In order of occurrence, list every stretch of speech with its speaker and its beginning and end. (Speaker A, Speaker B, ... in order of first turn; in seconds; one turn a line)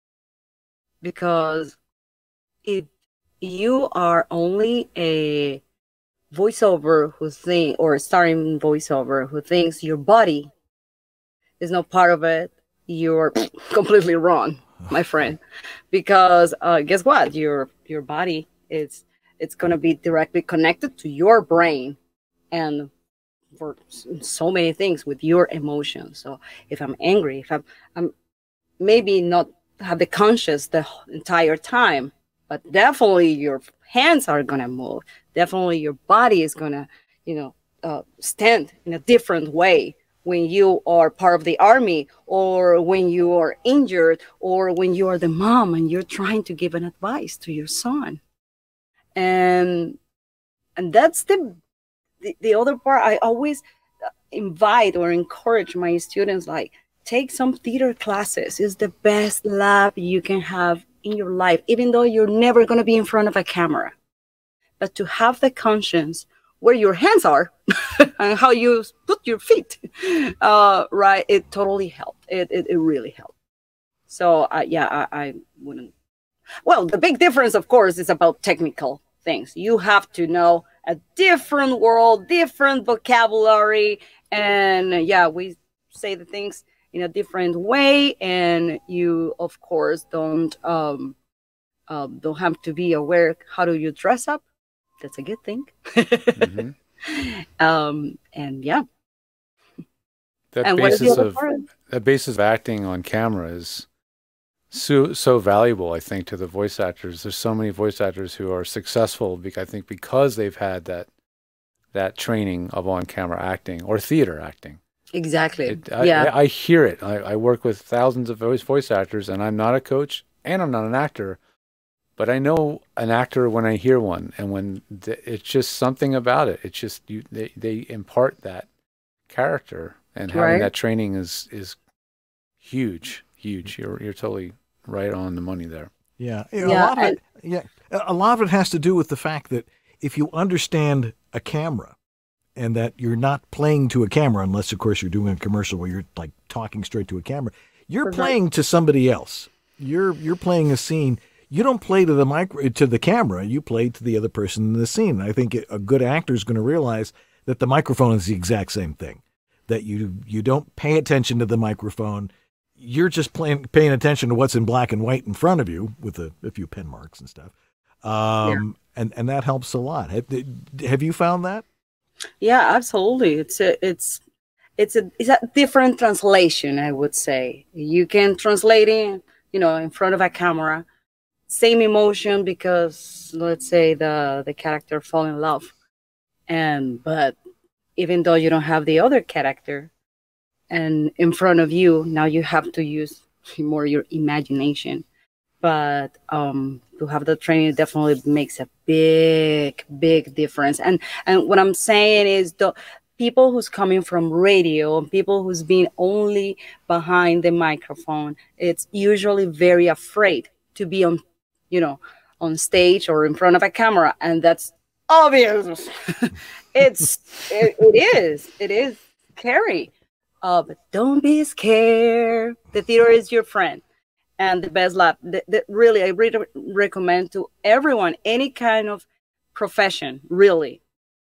Speaker A: 1.0-1.8
Speaker A: 3.4-5.6
Speaker A: 6.3-10.5
Speaker A: 11.6-15.4
Speaker A: 15.9-22.0
Speaker A: 22.5-22.9
Speaker A: 23.6-28.1
Speaker A: 28.8-48.2
Speaker A: 49.2-50.0
Speaker A: 50.8-51.6
Speaker A: 52.2-53.6
Speaker A: 54.3-63.9
Speaker A: 64.8-73.3
Speaker A: 74.1-75.9
Speaker A: 76.6-91.2
Speaker A: 91.9-94.4
Speaker A: 95.0-98.8
Speaker B: 96.4-96.7
Speaker B: 100.5-103.9
Speaker A: 100.6-101.6
Speaker B: 104.7-111.1
Speaker B: 111.9-114.8
Speaker A: 115.1-116.3
Speaker B: 115.7-121.4
Speaker B: 122.2-128.7
Speaker B: 129.3-131.8
Speaker A: 130.3-130.7
Speaker B: 132.6-135.9
Speaker C: 136.2-141.9
Speaker A: 136.6-137.2
Speaker C: 142.6-171.6
Speaker A: 148.1-148.3
Speaker A: 172.4-174.2
Speaker A: 174.8-180.9
Speaker A: 181.5-185.7
Speaker A: 186.5-187.4
Speaker A: 188.0-189.9
Speaker A: 190.7-195.1
Speaker A: 195.6-219.9
Speaker A: 220.4-223.8
Speaker A: 224.4-230.8